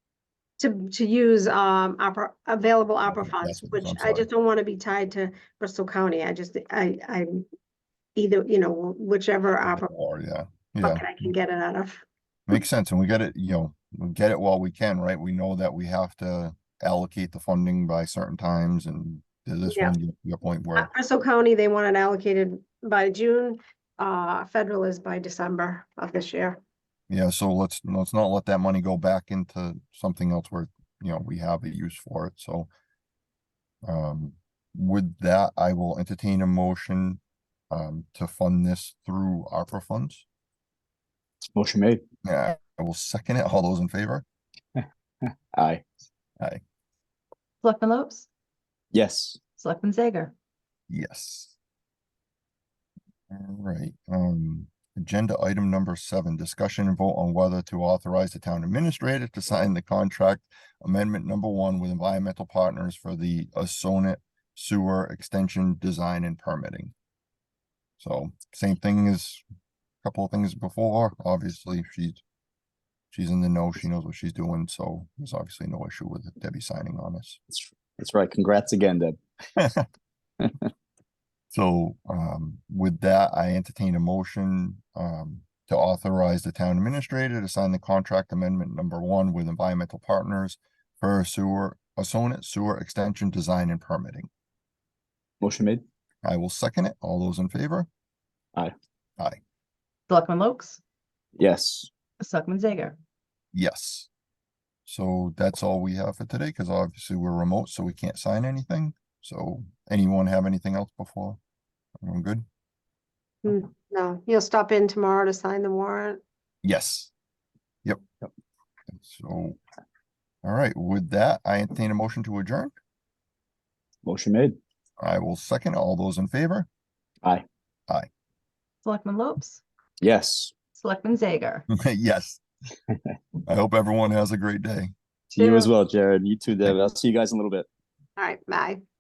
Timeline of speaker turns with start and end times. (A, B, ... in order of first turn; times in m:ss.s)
0:00.6-0:07.4 A
0:03.1-0:04.3 B
0:08.2-0:09.9 A
0:09.6-0:11.3 B
0:10.8-0:12.0 A
0:12.5-0:20.9 B
0:19.7-0:19.9 A
0:20.8-0:26.6 A
0:27.1-0:32.7 B
0:33.8-0:40.2 B
0:41.5-0:42.0 C
0:42.2-0:44.2 B
0:45.5-0:45.8 C
0:47.6-0:48.3 D
0:48.9-0:49.4 C
0:49.6-0:50.3 D
0:50.9-0:51.5 B
0:53.3-1:06.9 B
1:08.0-1:09.4 B
1:10.0-1:12.2 B
1:13.1-1:17.4 B
1:17.5-1:19.2 C
1:19.6-1:19.8 B
1:21.5-1:34.3 B
1:35.4-1:35.8 C
1:36.2-1:37.9 B
1:40.1-1:40.8 D
1:41.4-1:41.9 C
1:42.2-1:43.0 D
1:43.5-1:44.1 B
1:44.9-1:51.4 B
1:52.0-1:52.5 B
1:53.4-1:56.2 A
1:56.6-1:57.1 B
1:58.9-1:59.6 B
2:00.4-2:02.7 B
2:04.0-2:04.6 C
2:05.0-2:06.7 B
2:08.8-2:09.6 D
2:10.0-2:10.5 C
2:10.8-2:11.7 D
2:11.7-2:12.4 B
2:13.5-2:14.9 B
2:15.3-2:17.7 C
2:15.4-2:15.7 A
2:18.2-2:18.8 A